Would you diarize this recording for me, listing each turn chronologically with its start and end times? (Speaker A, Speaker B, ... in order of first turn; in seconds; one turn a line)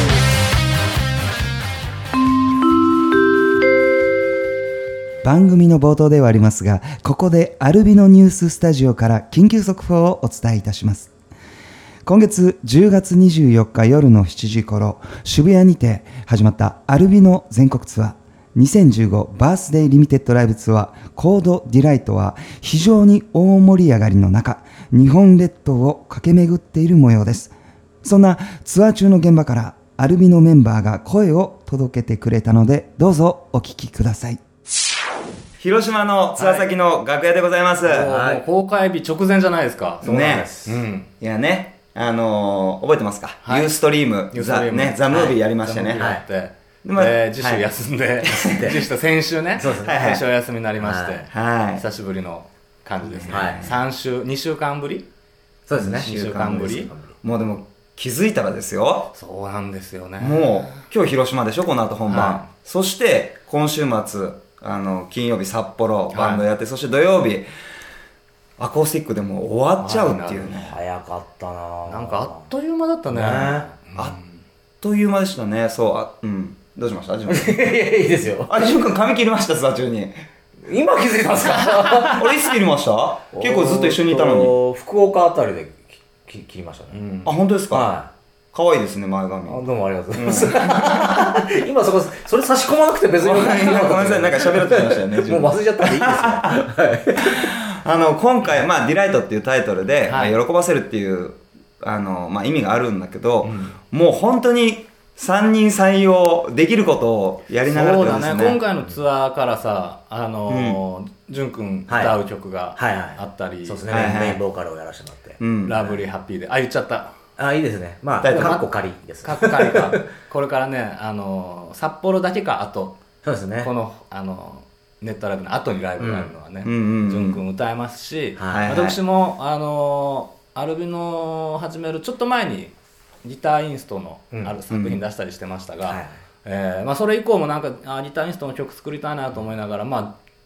Speaker A: 5.2-11.1
Speaker A: 12.1-34.4
Speaker A: 35.6-38.1
Speaker B: 36.4-36.7
Speaker B: 37.8-40.1
Speaker C: 38.0-38.4
Speaker A: 40.0-40.5
Speaker C: 40.0-40.8
Speaker B: 40.6-41.1
Speaker A: 41.2-46.1
Speaker B: 43.4-43.8
Speaker B: 44.3-55.1
Speaker C: 45.1-45.4
Speaker C: 46.0-46.2
Speaker A: 46.8-47.7
Speaker A: 48.2-48.7
Speaker C: 48.2-48.8
Speaker C: 49.5-50.1
Speaker A: 49.8-50.2
Speaker C: 50.8-51.3
Speaker A: 51.3-51.8
Speaker A: 53.0-53.7
Speaker C: 53.3-53.6
Speaker C: 55.7-56.1
Speaker A: 55.8-59.1
Speaker B: 55.9-56.9
Speaker C: 56.8-57.2
Speaker B: 59.1-60.8
Speaker A: 60.2-67.5
Speaker B: 62.1-62.5
Speaker B: 66.1-66.4
Speaker A: 68.6-70.7
Speaker B: 69.8-70.5
Speaker C: 70.4-72.4
Speaker B: 71.9-74.4
Speaker C: 73.1-73.7
Speaker A: 74.8-77.8
Speaker C: 77.3-78.6
Speaker A: 78.5-80.2
Speaker C: 80.6-82.6
Speaker A: 82.0-84.5
Speaker C: 83.3-87.0
Speaker B: 86.9-87.3
Speaker A: 87.2-87.9
Speaker C: 87.7-88.1
Speaker A: 88.5-91.1
Speaker C: 89.5-97.5
Speaker A: 93.2-108.6
Speaker B: 100.0-100.3
Speaker B: 103.4-103.8
Speaker B: 107.6-113.9
Speaker A: 110.5-110.8
Speaker C: 111.9-112.2
Speaker C: 112.8-116.0
Speaker A: 113.9-114.4
Speaker A: 115.4-115.8
Speaker B: 115.6-117.1
Speaker C: 117.4-120.0
Speaker A: 118.2-118.6
Speaker B: 118.3-118.7
Speaker B: 119.2-123.0
Speaker C: 123.2-123.7
Speaker B: 123.6-140.2
Speaker C: 126.0-126.3
Speaker A: 126.6-127.4
Speaker C: 128.4-128.6
Speaker A: 128.5-129.0
Speaker A: 134.7-135.0
Speaker C: 135.8-136.1